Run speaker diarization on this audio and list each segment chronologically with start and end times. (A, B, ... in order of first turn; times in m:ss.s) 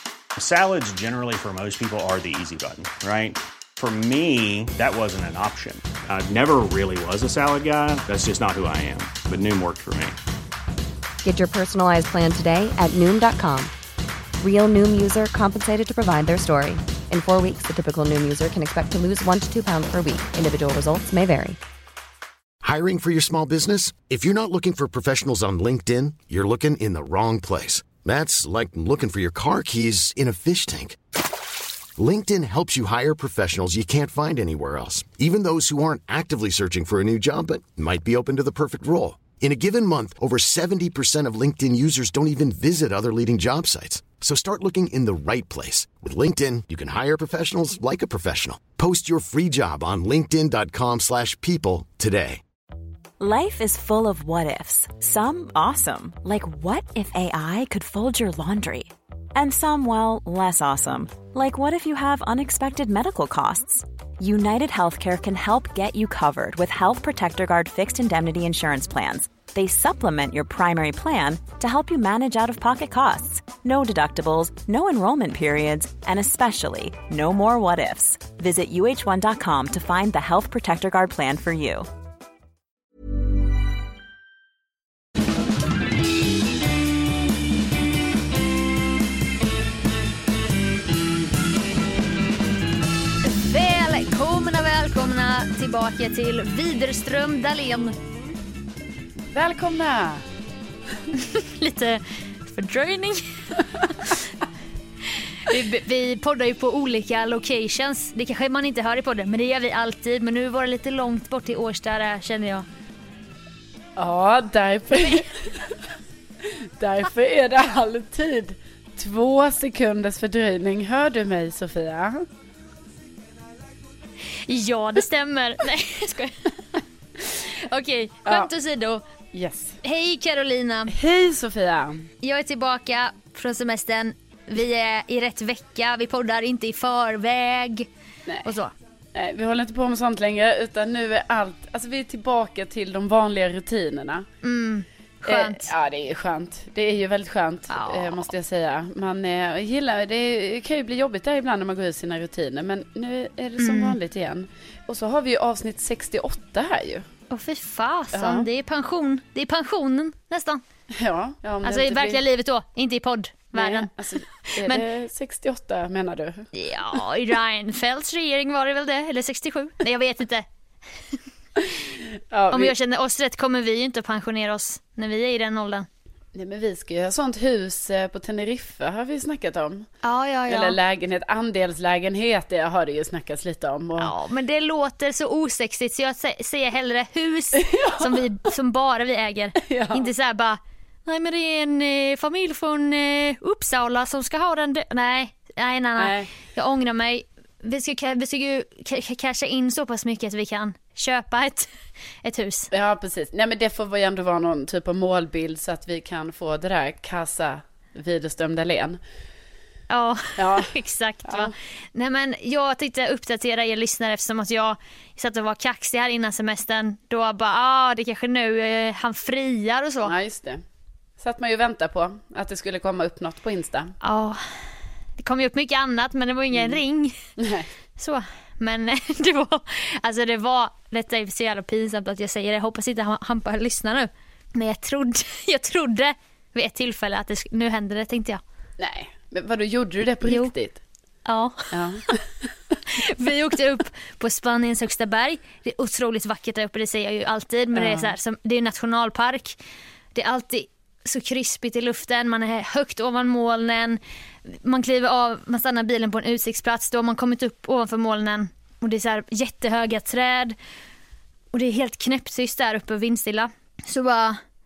0:00.4-0:10.2 A
0:11.2-0:13.7 B
0:14.4-0:21.6 B
0:22.6-0:31.0 C
0:32.0-0:52.4 C
0:53.2-1:21.9 D
1:33.2-1:37.9 E
1:39.3-1:40.2 F
1:41.2-1:43.2 E
1:45.5-1:52.6 E
1:54.0-1:55.5 F
1:56.4-2:02.2 F
2:04.5-2:09.0 E
2:09.3-2:09.8 F
2:09.8-2:10.9 E
2:10.9-2:12.1 F
2:12.2-2:17.9 E
2:18.4-2:18.7 E
2:19.1-2:24.3 F
2:24.4-2:25.6 E
2:25.3-2:37.0 F
2:27.7-2:28.2 E
2:33.6-2:34.0 E
2:37.3-2:40.6 E
2:38.1-2:38.4 F
2:41.0-2:42.2 F
2:41.6-2:43.9 E
2:43.5-2:46.5 F
2:46.5-2:50.4 E
2:52.3-2:52.7 F
2:52.5-2:55.9 E
2:56.3-2:59.9 F
3:00.0-3:00.8 E
3:00.5-3:04.1 F
3:04.0-3:21.7 E
3:07.6-3:08.2 F
3:09.6-3:10.1 F
3:16.0-3:16.3 F
3:22.2-3:22.7 E
3:22.7-3:29.0 F
3:29.9-3:40.1 E
3:30.4-3:30.7 F
3:40.0-3:40.6 F
3:41.2-3:43.9 F
3:44.0-3:44.4 E
3:45.2-3:47.2 E
3:46.5-3:46.8 F
3:47.4-3:47.7 F
3:48.0-3:58.4 E
3:58.8-4:00.8 F
4:00.2-4:00.5 E
4:01.2-4:02.2 E
4:01.7-4:02.0 F
4:02.8-4:09.6 E
4:07.7-4:08.1 F
4:10.1-4:20.6 E
4:21.5-4:24.4 E